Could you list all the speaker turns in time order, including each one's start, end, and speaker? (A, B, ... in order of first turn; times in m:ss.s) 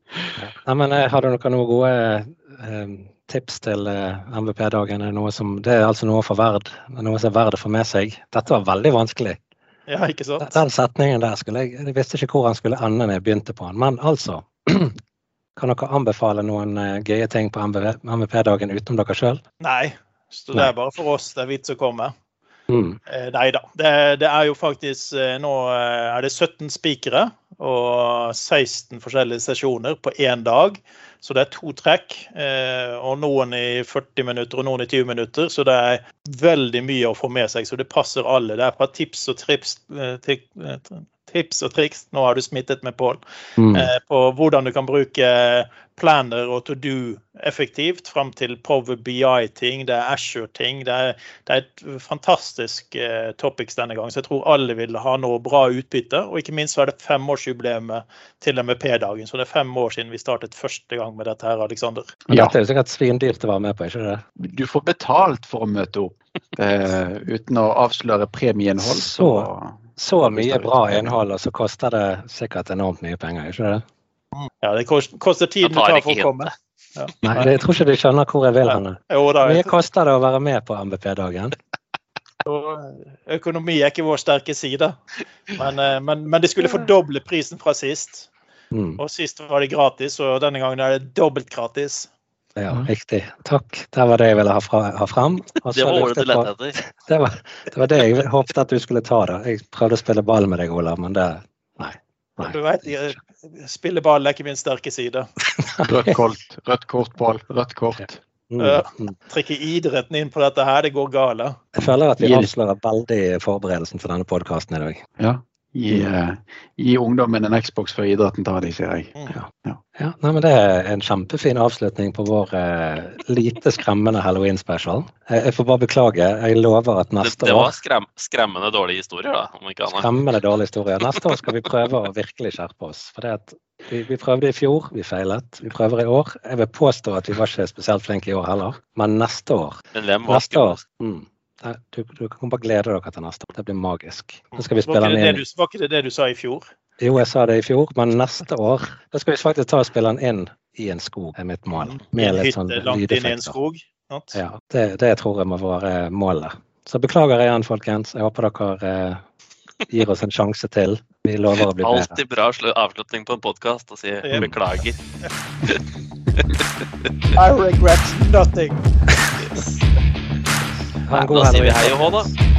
0:00.4-0:09.4 A
0:09.9-0:10.6 B
0:10.4-0:15.0 A
0:15.6-0:19.4 A
0:19.6-0:22.1 B
0:22.7-0:23.0 A
0:23.1-0:43.2 B
0:43.6-0:43.9 A
0:43.7-1:02.1 B
1:02.3-1:02.5 C
1:02.3-1:04.2 A
1:04.4-1:11.2 C
1:08.8-1:13.8 A
1:14.4-1:17.5 B
1:15.6-1:16.5 D
1:17.2-1:21.5 A
1:18.6-1:19.7 B
1:22.4-1:25.0 B
1:25.5-1:28.3 B
1:28.7-1:29.0 A
1:29.0-1:32.1 B
1:32.6-1:42.6 A
1:35.7-1:36.8 D
1:42.4-1:45.3 B
1:45.5-1:46.2 A
1:45.9-1:48.2 C
1:48.5-1:49.2 A
1:48.6-1:51.6 B
1:51.8-1:55.0 A
1:51.8-1:52.5 C
1:55.2-1:59.8 C
1:59.3-2:07.8 A
2:07.2-2:10.1 D
2:09.9-2:25.4 A
2:11.0-2:11.4 D
2:19.9-2:20.8 D
2:24.5-2:26.7 B
2:27.0-2:33.6 A
2:31.7-2:34.4 B
2:34.3-2:39.2 A
2:39.9-2:42.2 A
2:41.8-2:45.0 D
2:44.2-2:44.6 B
2:47.3-2:48.9 B
2:49.4-2:49.8 D
2:51.0-2:52.4 A
2:51.1-2:52.3 D